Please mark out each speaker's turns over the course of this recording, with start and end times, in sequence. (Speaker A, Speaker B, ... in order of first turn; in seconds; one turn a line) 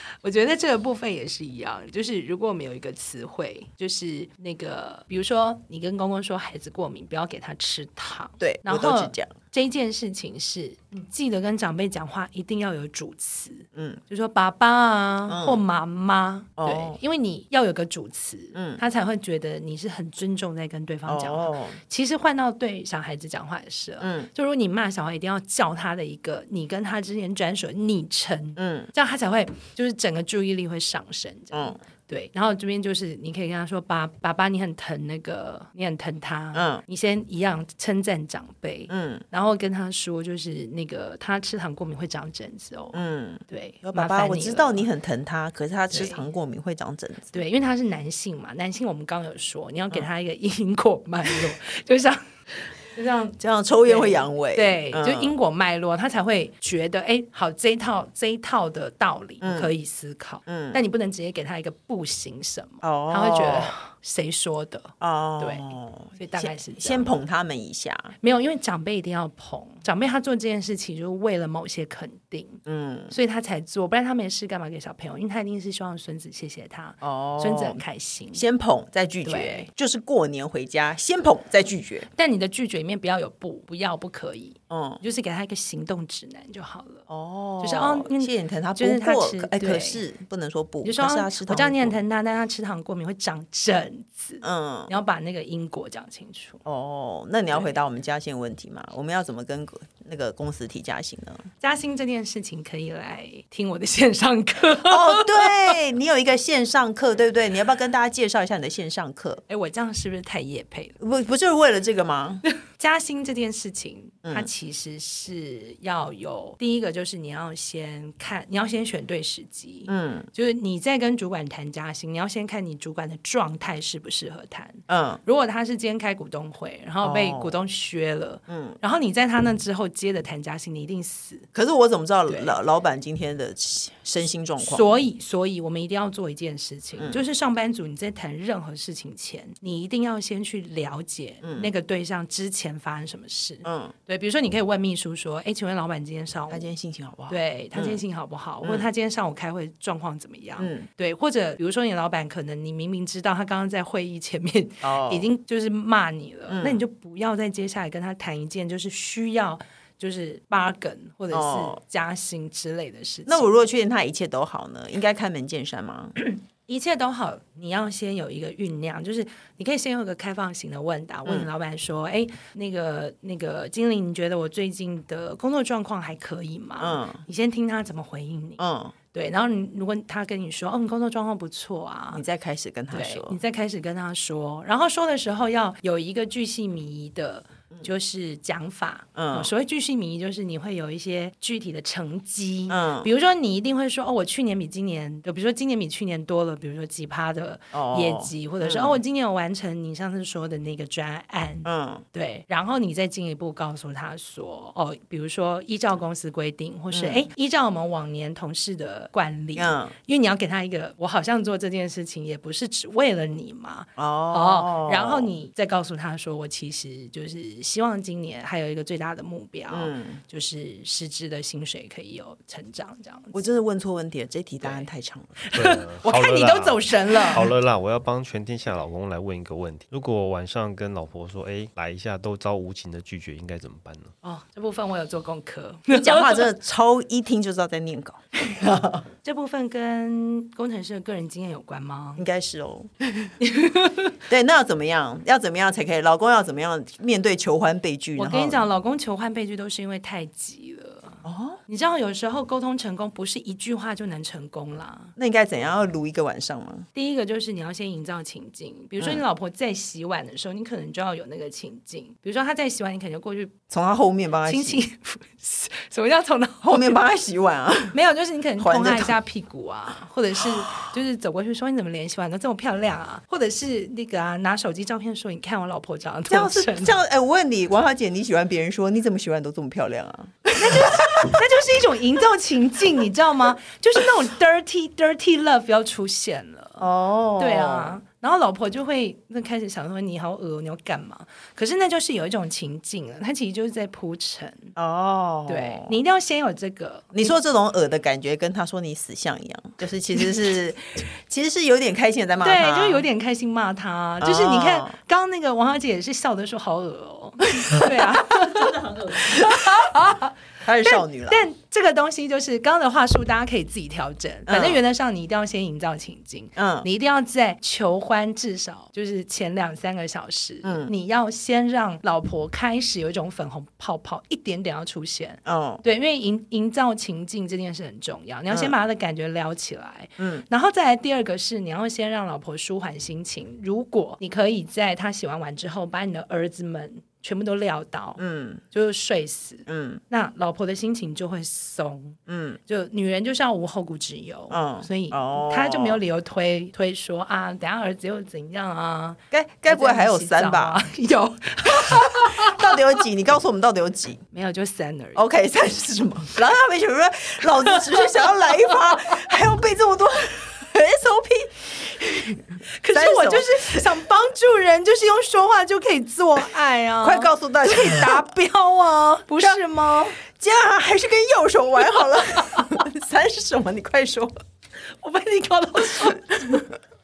Speaker A: 0.2-43.0
Speaker B: 8.4-9.3
Speaker B: 13.7-14.0
Speaker B: 15.3-15.6
Speaker B: 16.6-17.0
Speaker B: 18.5-18.8
Speaker B: 21.1-21.8
Speaker B: 24.0-24.3
Speaker B: 28.6-28.9
Speaker B: 31.5-31.8
Speaker B: 36.5-36.8
Speaker B: 38.9-39.2
Speaker B: 42.9-47.4
Speaker A: 43.5-44.9
Speaker A: 45.9-46.2
Speaker A: 47.3-67.1
Speaker B: 53.4-55.3
Speaker B: 59.4-59.7
Speaker B: 60.5-60.8
Speaker B: 62.8-63.7
Speaker B: 65.0-68.1
Speaker A: 68.2-78.4
Speaker B: 72.7-73.1
Speaker B: 77.0-77.8
Speaker B: 78.3-82.1
Speaker A: 79.2-79.7
Speaker A: 82.1-87.0
Speaker B: 84.7-85.0
Speaker B: 87.1-92.0
Speaker A: 87.6-90.0
Speaker A: 90.8-96.6
Speaker B: 94.4-94.9
Speaker B: 96.6-101.5
Speaker A: 101.6-105.7
Speaker B: 104.8-109.4
Speaker A: 109.5-111.0
Speaker B: 111.0-112.4
Speaker A: 112.4-131.5
Speaker B: 114.2-114.5
Speaker B: 119.9-120.3
Speaker B: 124.9-125.2
Speaker B: 127.0-127.6
Speaker B: 128.5-128.8
Speaker B: 131.5-134.9
Speaker A: 132.3-132.5
Speaker A: 134.6-146.7
Speaker B: 141.4-141.7
Speaker B: 143.6-143.9
Speaker B: 146.5-148.0
Speaker A: 147.3-163.5
Speaker B: 150.6-150.9
Speaker B: 154.8-155.3
Speaker B: 156.5-156.8
Speaker B: 161.3-161.8
Speaker B: 163.2-166.2
Speaker A: 166.2-178.6
Speaker B: 176.8-177.2
Speaker B: 178.6-178.9
Speaker A: 179.1-182.2
Speaker B: 182.1-183.4
Speaker A: 182.9-223.4
Speaker B: 189.2-189.5
Speaker B: 192.7-193.1
Speaker B: 197.7-199.0
Speaker B: 201.6-202.0
Speaker B: 206.9-207.2
Speaker B: 209.6-209.9
Speaker B: 214.0-215.3
Speaker B: 219.7-220.2
Speaker B: 223.3-225.4
Speaker A: 224.6-224.9
Speaker A: 225.4-227.5
Speaker C: 225.5-234.1
Speaker A: 234.2-236.5
Speaker B: 235.9-239.1
Speaker A: 239.2-242.2
Speaker B: 242.2-243.3
Speaker A: 243.4-244.1
Speaker B: 244.3-248.7
Speaker A: 248.2-255.1
Speaker B: 251.2-251.6
Speaker B: 255.2-256.9
Speaker A: 256.9-263.5
Speaker B: 263.7-264.8
Speaker A: 264.4-267.0
Speaker B: 266.6-267.9
Speaker A: 267.9-277.0
Speaker B: 268.6-269.1
Speaker B: 276.3-281.4
Speaker A: 280.5-286.9
Speaker B: 286.8-288.0
Speaker A: 287.4-294.7
Speaker B: 294.8-295.9
Speaker A: 295.5-297.1
Speaker B: 297.1-303.0
Speaker A: 302.4-352.8
Speaker B: 304.2-304.9
Speaker B: 307.6-309.9
Speaker B: 310.6-311.4
Speaker B: 314.5-314.8
Speaker B: 316.6-316.9
Speaker B: 320.6-320.9
Speaker B: 325.4-325.8
Speaker B: 328.5-328.7
Speaker B: 330.2-330.4
Speaker B: 338.2-338.6
Speaker B: 339.7-340.0
Speaker B: 342.3-342.6
Speaker B: 344.5-346.0
Speaker B: 349.3-350.8
Speaker B: 351.6-354.2
Speaker A: 354.3-355.2
Speaker B: 355.1-363.9
Speaker A: 357.7-359.2
Speaker A: 362.7-370.2
Speaker B: 367.0-368.3
Speaker B: 370.2-374.3
Speaker A: 375.0-376.7